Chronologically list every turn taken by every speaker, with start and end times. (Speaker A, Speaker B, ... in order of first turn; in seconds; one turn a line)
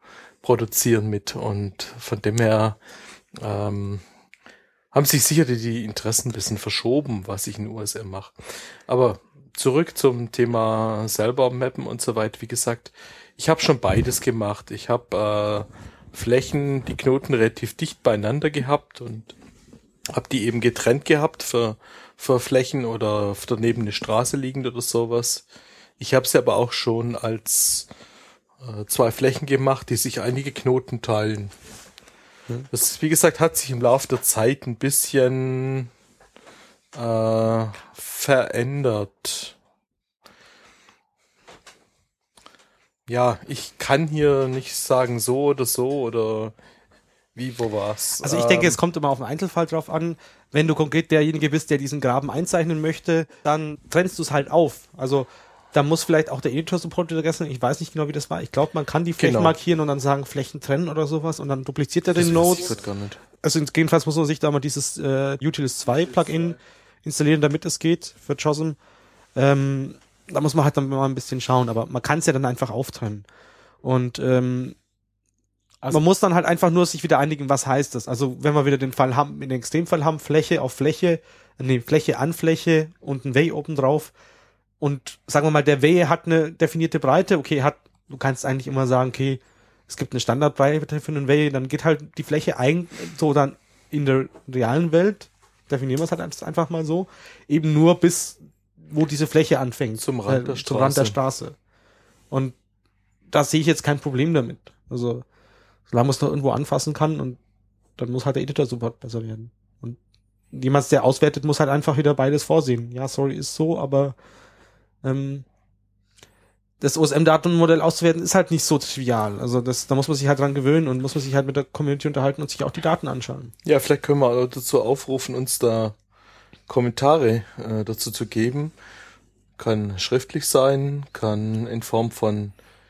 Speaker A: 0.4-2.8
Speaker A: 3.4-4.0
Speaker A: 4.9-19.3
Speaker A: 20.1-25.4
Speaker A: 26.0-27.9
Speaker A: 28.6-31.5
Speaker A: 32.7-35.9
Speaker A: 36.9-39.5
Speaker A: 43.1-46.5
Speaker A: 47.3-48.8
Speaker B: 48.2-62.7
Speaker A: 59.2-59.5
Speaker A: 62.1-63.2
Speaker B: 63.4-68.8
Speaker A: 66.1-66.5
Speaker B: 69.3-73.2
Speaker B: 73.8-74.8
Speaker B: 75.9-84.1
Speaker B: 84.8-101.5
Speaker A: 100.0-101.2
Speaker B: 103.3-105.2
Speaker B: 105.9-107.4
Speaker B: 108.0-110.0
Speaker B: 110.5-114.2
Speaker B: 115.0-115.4
Speaker B: 116.8-123.5
Speaker A: 123.6-126.0
Speaker A: 126.7-128.7
Speaker A: 129.6-132.5